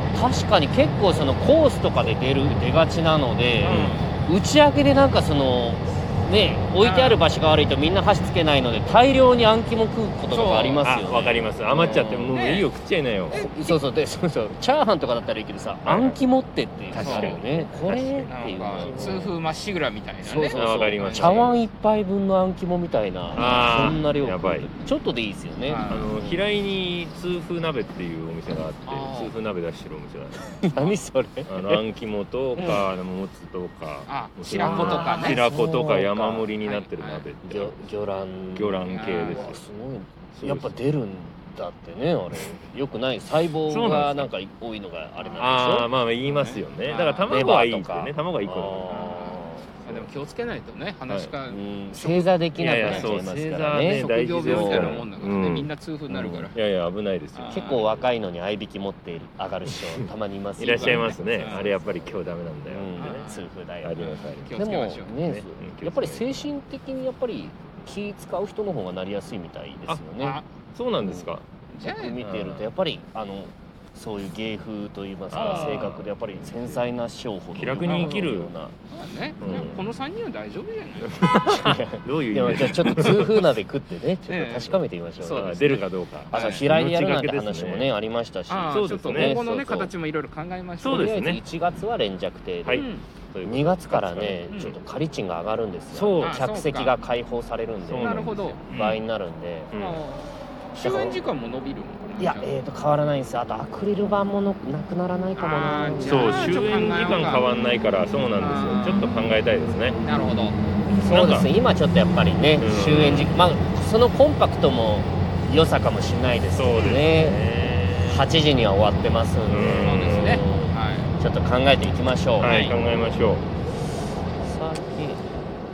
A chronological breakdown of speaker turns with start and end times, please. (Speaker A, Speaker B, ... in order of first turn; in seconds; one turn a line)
Speaker A: 0.1-12.3
Speaker B: 3.6-4.2
Speaker C: 3.7-3.9
Speaker B: 6.8-7.2
Speaker B: 10.3-10.9
Speaker C: 10.8-13.4
Speaker B: 12.3-12.7
Speaker B: 13.3-13.8
Speaker A: 13.3-19.3
Speaker C: 15.8-16.2
Speaker C: 16.9-18.3
Speaker B: 17.0-17.4
Speaker B: 18.3-21.6
Speaker C: 18.8-19.2
Speaker A: 20.2-26.4
Speaker C: 20.5-21.6
Speaker C: 23.3-24.7
Speaker B: 25.6-26.1
Speaker C: 25.9-30.6
Speaker B: 28.8-29.4
Speaker A: 30.4-31.8
Speaker C: 31.5-37.9
Speaker B: 32.6-32.9
Speaker B: 34.1-35.4
Speaker A: 34.6-36.5
Speaker B: 36.6-37.3
Speaker A: 37.4-45.9
Speaker C: 38.5-39.6
Speaker B: 38.9-39.5
Speaker C: 40.4-40.8
Speaker C: 43.7-44.3
Speaker C: 45.4-49.0
Speaker B: 46.2-47.3
Speaker A: 47.3-49.7
Speaker B: 48.9-53.2
Speaker C: 51.1-51.3
Speaker A: 51.5-55.0
Speaker C: 52.6-55.7
Speaker B: 53.8-56.6
Speaker A: 56.1-56.5
Speaker C: 56.5-58.1
Speaker B: 57.3-57.8
Speaker A: 57.5-64.0
Speaker B: 60.6-61.6
Speaker C: 60.6-63.1
Speaker B: 63.0-65.1
Speaker C: 63.8-64.6
Speaker A: 64.5-70.4
Speaker C: 65.2-66.5
Speaker B: 70.2-70.5
Speaker C: 70.8-71.5
Speaker A: 71.0-78.7
Speaker B: 71.7-72.2
Speaker C: 72.2-72.7
Speaker C: 75.3-76.8
Speaker B: 75.3-76.0
Speaker C: 77.5-78.5
Speaker B: 77.8-78.3
Speaker B: 78.9-81.2
Speaker C: 79.4-79.9
Speaker A: 79.4-79.8
Speaker C: 81.0-83.5
Speaker A: 81.3-89.9
Speaker B: 84.3-86.7
Speaker C: 85.4-87.9
Speaker B: 88.5-91.1
Speaker C: 88.7-89.4
Speaker C: 90.8-91.4
Speaker A: 90.8-92.9
Speaker C: 92.7-94.8
Speaker B: 92.7-93.1
Speaker A: 93.5-99.8
Speaker B: 94.5-94.8
Speaker C: 95.9-96.4
Speaker B: 96.2-97.0
Speaker C: 97.8-99.0
Speaker B: 98.0-99.0
Speaker C: 99.7-100.0
Speaker B: 99.7-102.5
Speaker A: 100.8-101.2
Speaker A: 102.2-106.7
Speaker B: 105.4-107.5
Speaker C: 106.0-110.0
Speaker B: 108.4-109.2
Speaker B: 110.0-110.6
Speaker A: 110.9-117.4
Speaker C: 111.0-111.5
Speaker C: 112.6-113.4
Speaker C: 116.5-118.3
Speaker A: 118.0-122.8
Speaker C: 119.5-120.5
Speaker B: 119.8-121.2
Speaker C: 122.4-123.5
Speaker B: 122.4-122.8
Speaker A: 124.4-125.5